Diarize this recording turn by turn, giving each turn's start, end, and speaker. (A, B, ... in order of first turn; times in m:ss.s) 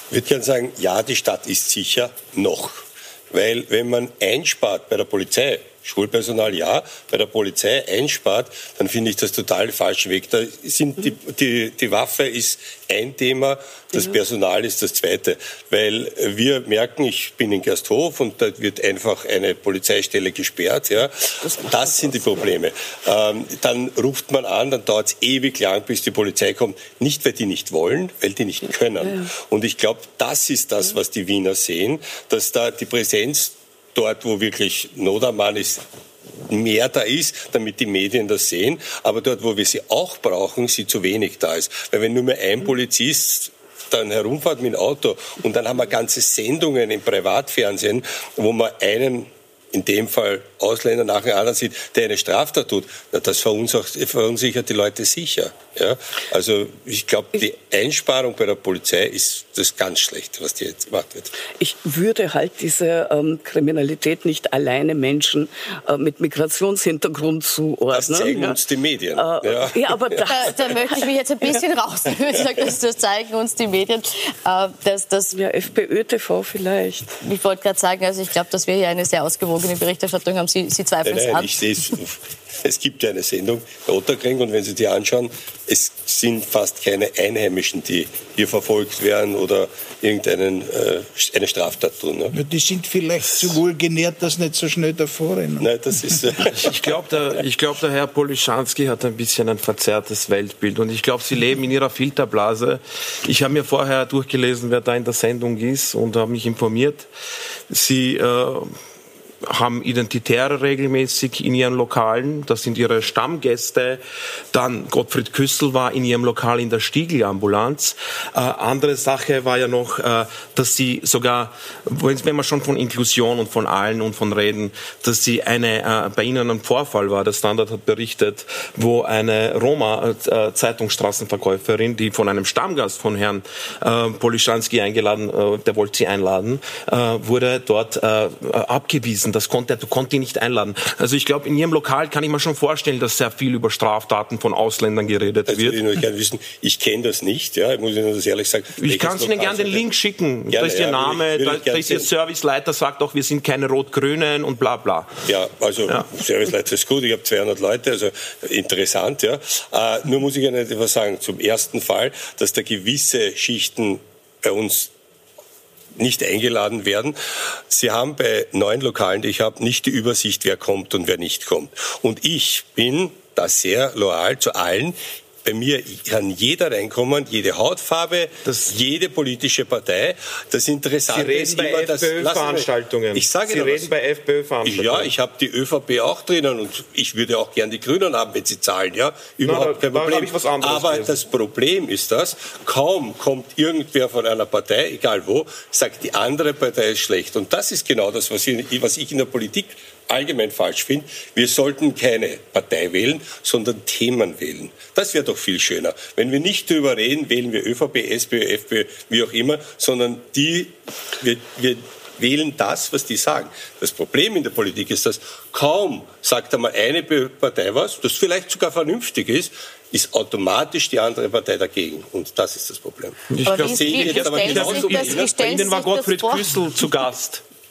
0:00.1-0:35.8 A
0:21.4-0:22.5 B
0:29.0-0:29.3 B
0:36.5-1:01.3 A
1:01.6-1:08.6 B
1:07.9-1:10.3 A
1:09.1-1:11.0 B
1:10.3-1:15.4 C
1:15.3-1:17.2 B
1:17.2-1:21.5 C
1:21.0-1:32.4 A
1:32.3-1:35.7 D
1:35.6-1:36.9 A
1:36.5-1:47.1 E
1:47.7-1:48.7 E
1:49.5-2:25.8 E
2:25.5-2:29.9 A
2:28.8-2:35.3 E
2:30.5-2:32.1 A
2:35.3-2:44.9 A
2:46.0-2:47.2 A
2:47.7-3:04.0 A
2:58.4-2:58.7 E
3:01.1-3:05.1 E
3:04.6-3:45.7 A
3:09.4-3:11.2 E
3:43.3-3:47.4 E
3:43.4-3:46.6 C